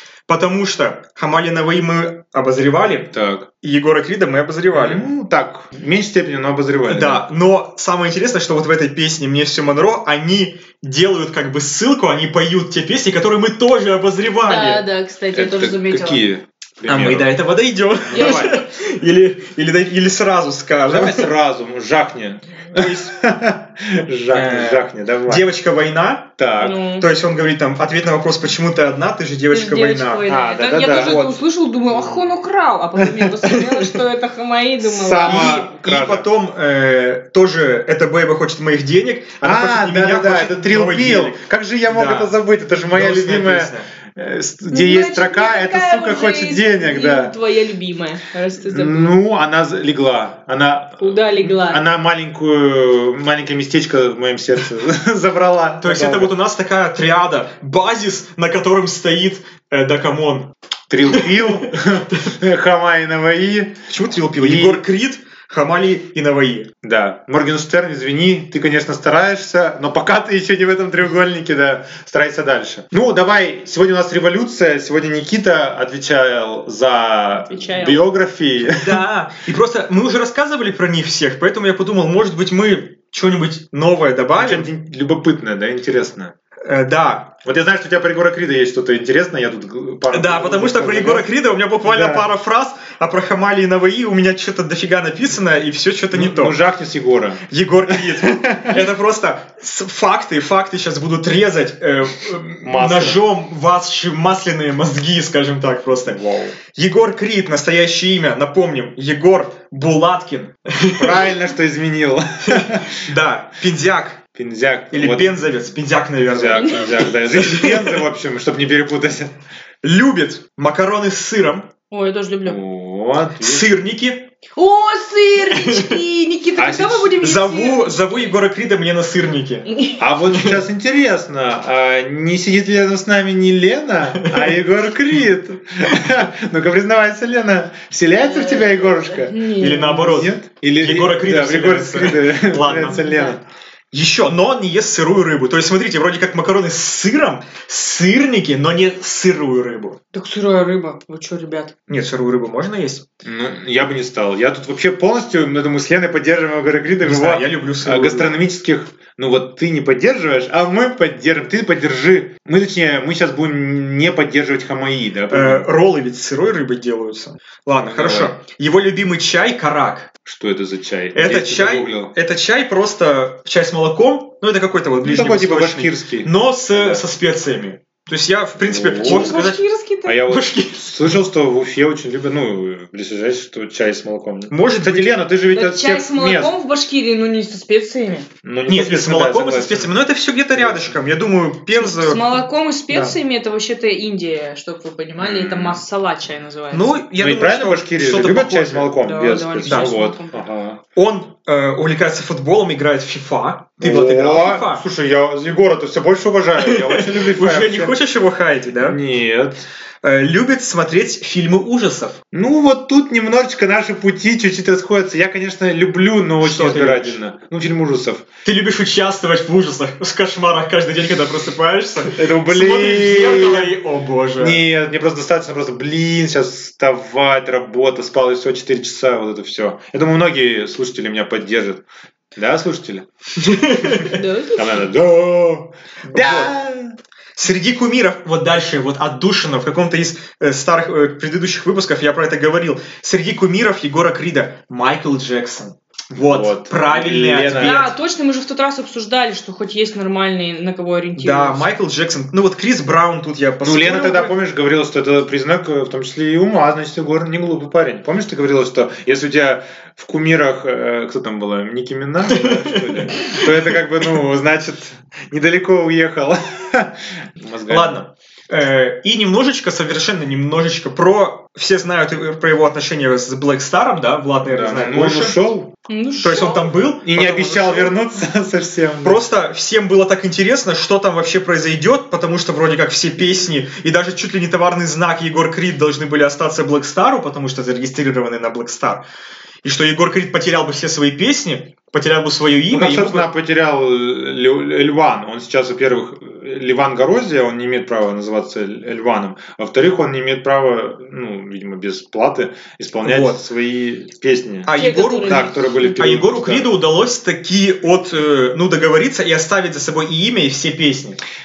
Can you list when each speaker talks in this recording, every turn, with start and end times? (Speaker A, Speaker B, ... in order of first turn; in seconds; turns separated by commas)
Speaker A: 0.3-5.0, Speaker B: 3.1-3.5, Speaker B: 4.7-7.2, Speaker A: 6.9-14.8, Speaker C: 14.4-16.2, Speaker B: 15.3-17.3, Speaker A: 16.9-21.3, Speaker B: 18.1-18.6, Speaker C: 18.1-18.6, Speaker B: 20.9-25.4, Speaker A: 22.7-23.1, Speaker A: 24.3-26.3, Speaker B: 26.4-26.8, Speaker C: 26.6-27.1, Speaker A: 27.0-30.2, Speaker C: 29.5-35.7, Speaker B: 30.2-31.2, Speaker A: 30.8-31.3, Speaker B: 31.9-32.2, Speaker A: 33.5-33.9, Speaker B: 34.8-36.3, Speaker A: 35.2-42.3, Speaker B: 39.4-47.3, Speaker A: 42.9-43.9, Speaker C: 44.7-49.1, Speaker B: 48.6-56.3, Speaker C: 51.0-51.8, Speaker A: 55.8-60.5, Speaker B: 60.9-63.8, Speaker A: 61.0-62.2, Speaker A: 63.9-66.7, Speaker B: 64.4-64.8, Speaker B: 66.8-79.0, Speaker C: 77.4-78.0, Speaker A: 78.7-84.7, Speaker B: 84.3-86.3, Speaker A: 86.6-87.3, Speaker B: 87.4-91.3, Speaker A: 90.1-96.6, Speaker B: 91.8-92.3, Speaker B: 96.1-98.8, Speaker A: 97.5-111.3, Speaker B: 102.6-103.2, Speaker B: 110.9-113.1, Speaker A: 112.4-114.2, Speaker B: 114.3-115.4, Speaker A: 114.9-118.0, Speaker B: 116.2-119.3, Speaker A: 119.8-121.7, Speaker C: 121.9-122.6, Speaker B: 122.4-123.7, Speaker A: 123.4-124.3, Speaker C: 124.5-128.3, Speaker A: 125.5-125.9, Speaker B: 126.6-127.2, Speaker A: 127.2-129.7, Speaker C: 129.7-130.0, Speaker B: 130.0-143.4, Speaker A: 130.3-130.6, Speaker A: 134.1-134.6, Speaker C: 138.2-140.2, Speaker A: 139.6-143.1, Speaker C: 142.7-143.3, Speaker A: 143.9-150.0, Speaker C: 150.1-151.7, Speaker A: 151.9-153.0, Speaker B: 153.2-165.7, Speaker A: 157.0-158.3, Speaker A: 165.3-170.1, Speaker B: 167.8-168.3, Speaker B: 170.2-172.1, Speaker A: 171.1-179.6, Speaker B: 175.0-177.0, Speaker B: 178.6-179.5, Speaker C: 179.0-180.2, Speaker B: 180.1-186.5, Speaker A: 180.3-180.9, Speaker A: 184.5-185.1, Speaker C: 185.5-188.3, Speaker B: 188.4-189.9, Speaker A: 188.7-192.4, Speaker B: 190.6-191.0, Speaker C: 191.7-197.0, Speaker B: 195.2-195.8, Speaker A: 196.7-198.9, Speaker B: 197.2-200.8, Speaker C: 199.0-200.4, Speaker A: 199.6-200.0, Speaker A: 200.9-204.8, Speaker B: 203.8-208.0, Speaker A: 206.6-209.0, Speaker B: 208.8-209.6, Speaker A: 210.0-212.2, Speaker B: 212.3-218.2, Speaker A: 216.4-217.2, Speaker A: 218.4-224.6, Speaker B: 222.1-223.8, Speaker B: 224.4-231.8, Speaker B: 232.3-233.0, Speaker A: 233.4-234.2, Speaker B: 233.8-236.9, Speaker C: 234.0-234.8, Speaker A: 236.1-236.5, Speaker A: 237.3-247.9, Speaker B: 246.2-247.9, Speaker C: 247.5-251.7, Speaker A: 251.2-254.3, Speaker B: 253.6-268.0, Speaker A: 262.3-263.5, Speaker A: 267.7-275.4, Speaker B: 274.5-275.7, Speaker C: 275.9-276.7, Speaker A: 276.2-277.9, Speaker B: 277.0-279.2, Speaker A: 279.0-289.0, Speaker A: 289.6-293.3, Speaker B: 292.7-306.7, Speaker A: 303.0-303.4, Speaker A: 304.6-305.4, Speaker C: 304.7-305.9, Speaker A: 306.0-311.2